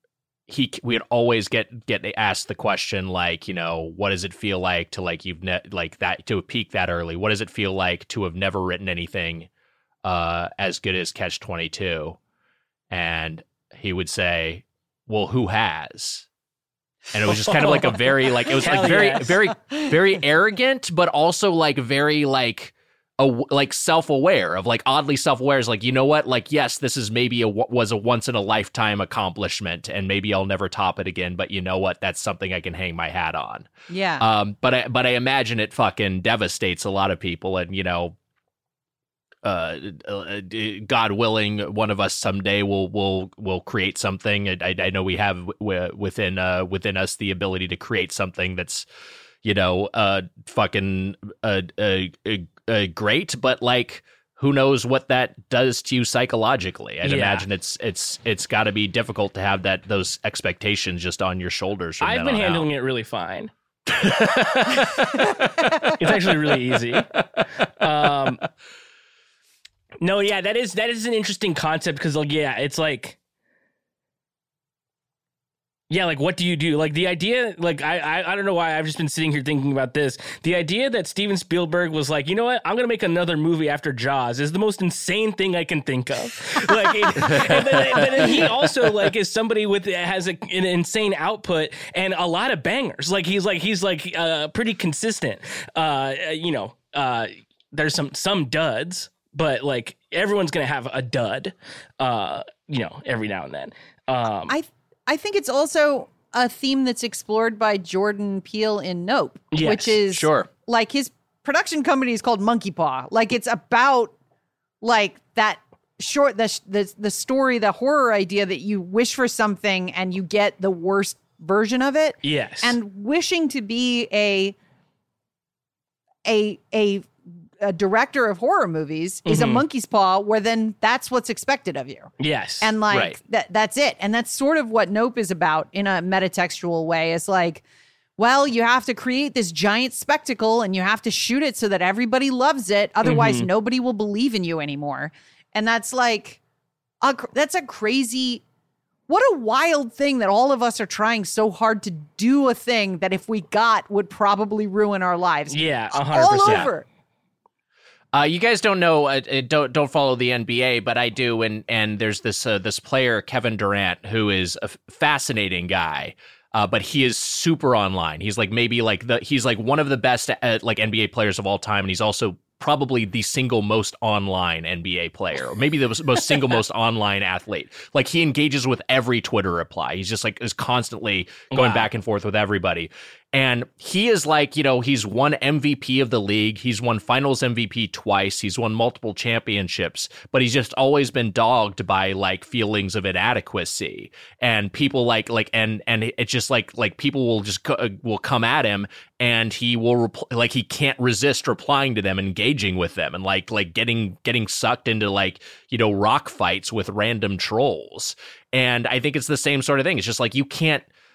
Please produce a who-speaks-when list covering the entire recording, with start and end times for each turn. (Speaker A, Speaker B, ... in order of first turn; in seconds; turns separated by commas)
Speaker A: 0.5-9.5, Speaker A: 10.0-12.2, Speaker A: 12.9-16.3, Speaker A: 17.1-38.2, Speaker B: 17.3-19.4, Speaker C: 33.9-34.2, Speaker A: 39.4-48.9, Speaker A: 49.4-62.7, Speaker B: 57.0-57.5, Speaker B: 62.0-63.5, Speaker A: 63.9-65.9, Speaker B: 65.9-68.5, Speaker B: 70.0-73.2, Speaker B: 75.9-104.5, Speaker A: 87.2-88.7, Speaker C: 104.5-114.2, Speaker B: 109.5-110.0, Speaker A: 110.1-110.5, Speaker C: 114.8-124.6, Speaker B: 122.2-122.8, Speaker C: 126.3-137.6, Speaker B: 129.3-129.7, Speaker B: 132.2-132.8, Speaker A: 132.9-133.2, Speaker C: 138.2-146.4, Speaker B: 143.0-143.5, Speaker C: 147.0-148.4, Speaker C: 149.1-156.9, Speaker B: 155.5-156.7, Speaker A: 158.1-210.9, Speaker B: 181.5-181.9